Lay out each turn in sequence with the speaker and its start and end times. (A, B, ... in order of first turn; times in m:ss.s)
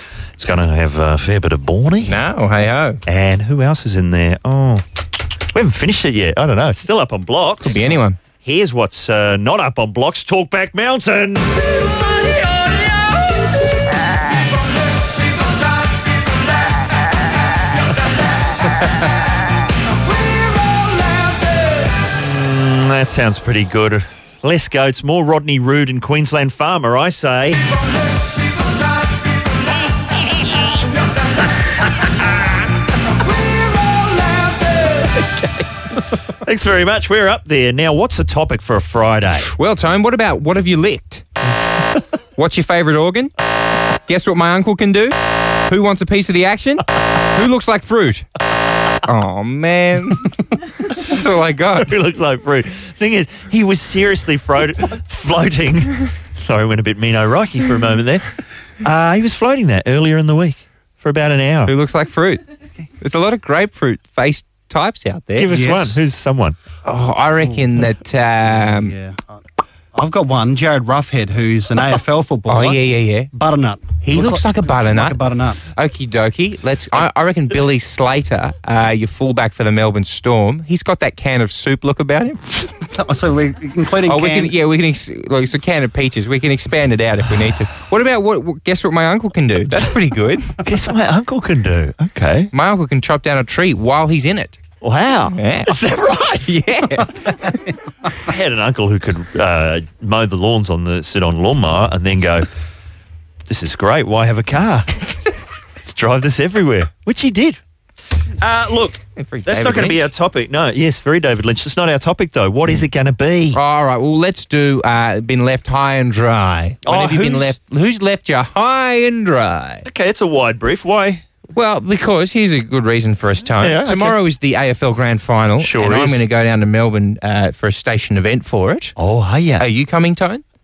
0:00.4-0:02.2 A
0:02.0-0:03.0 B
0:03.1-0:04.8 A
0:05.5-0:11.6 A
0:07.6-0:08.2 B
0:22.0-0:27.6 A
0:36.4-0:39.5 A
0:39.5-0:41.3 B
0:42.4-0:43.3 B
0:44.1-0:45.2 B
0:45.7-0:48.3 B
0:49.0-0:50.4 B
0:50.9-0:51.9 B
0:51.8-0:58.3 A
0:58.8-1:01.7 A
1:01.7-1:02.4 B
1:03.0-1:05.5 B
1:05.4-1:06.6 A
1:05.5-1:06.0 C
1:06.8-1:08.9 B
1:08.5-1:09.4 C
1:09.9-1:15.6 C
1:12.5-1:13.3 B
1:14.0-1:15.2 B
1:15.8-1:22.4 B
1:22.9-1:24.6 C
1:24.1-1:30.6 B
1:30.6-1:32.5 A
1:32.5-1:34.6 B
1:34.8-1:36.6 A
1:35.4-1:35.7 B
1:36.5-1:37.5 B
1:38.2-1:42.5 A
1:43.5-1:45.1 A
1:45.8-1:47.6 A
1:48.4-1:53.6 A
1:49.2-1:50.1 B
1:53.5-1:59.9 B
1:56.9-1:57.6 A
1:59.9-2:01.2 A
2:01.6-2:08.9 B
2:03.6-2:04.2 A
2:05.6-2:06.2 A
2:09.0-2:09.7 A
2:09.6-2:10.4 B